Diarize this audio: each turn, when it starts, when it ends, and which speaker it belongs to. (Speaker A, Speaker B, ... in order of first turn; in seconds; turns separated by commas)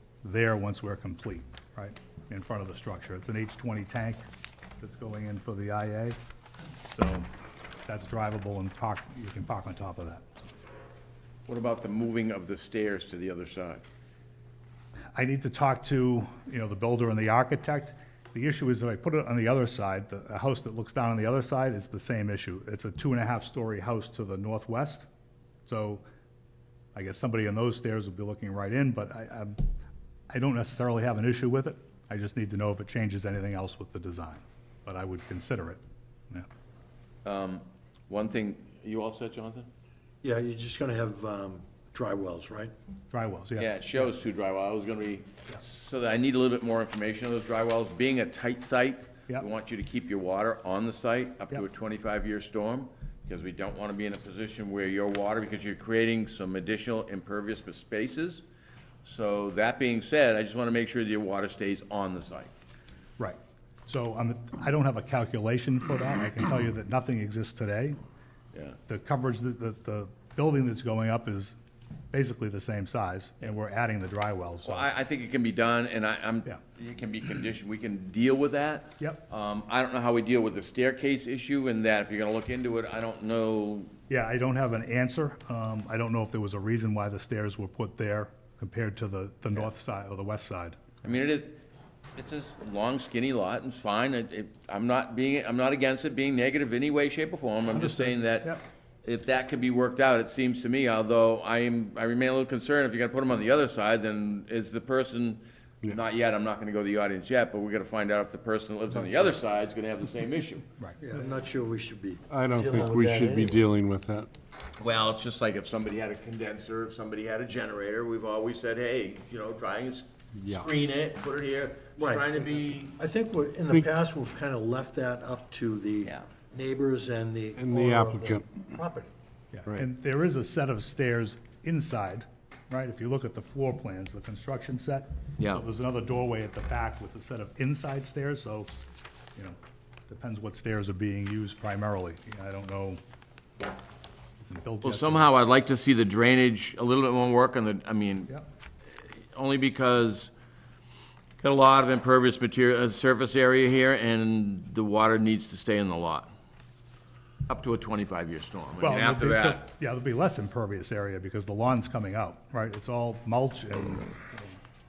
Speaker A: 0.2-4.2, Speaker A: 4.8-6.2, Speaker A: 6.8-7.3, Speaker A: 7.9-10.3, Speaker B: 11.5-13.8, Speaker A: 15.1-25.1, Speaker A: 25.6-26.0, Speaker A: 26.9-29.6, Speaker A: 30.3-35.8, Speaker B: 37.2-39.7, Speaker C: 40.2-42.7, Speaker A: 43.1-43.8, Speaker B: 43.6-58.4, Speaker B: 59.0-62.5, Speaker A: 63.2-68.0, Speaker A: 68.9-71.5, Speaker A: 72.1-74.9, Speaker B: 74.6-83.9, Speaker A: 84.1-91.0, Speaker B: 91.0-91.6, Speaker B: 92.2-98.5, Speaker A: 97.7-98.6, Speaker B: 99.0-110.7, Speaker C: 111.0-113.6, Speaker D: 112.3-114.3, Speaker B: 114.8-123.0, Speaker D: 120.4-120.7, Speaker C: 122.0-122.3, Speaker C: 123.0-129.1, Speaker D: 127.5-128.7, Speaker A: 129.5-138.7, Speaker B: 135.4-135.6, Speaker A: 139.3-143.0, Speaker A: 144.4-145.3, Speaker B: 144.8-148.3, Speaker B: 149.3-150.3, Speaker B: 151.4-156.3, Speaker B: 157.5-159.6, Speaker A: 158.8-164.6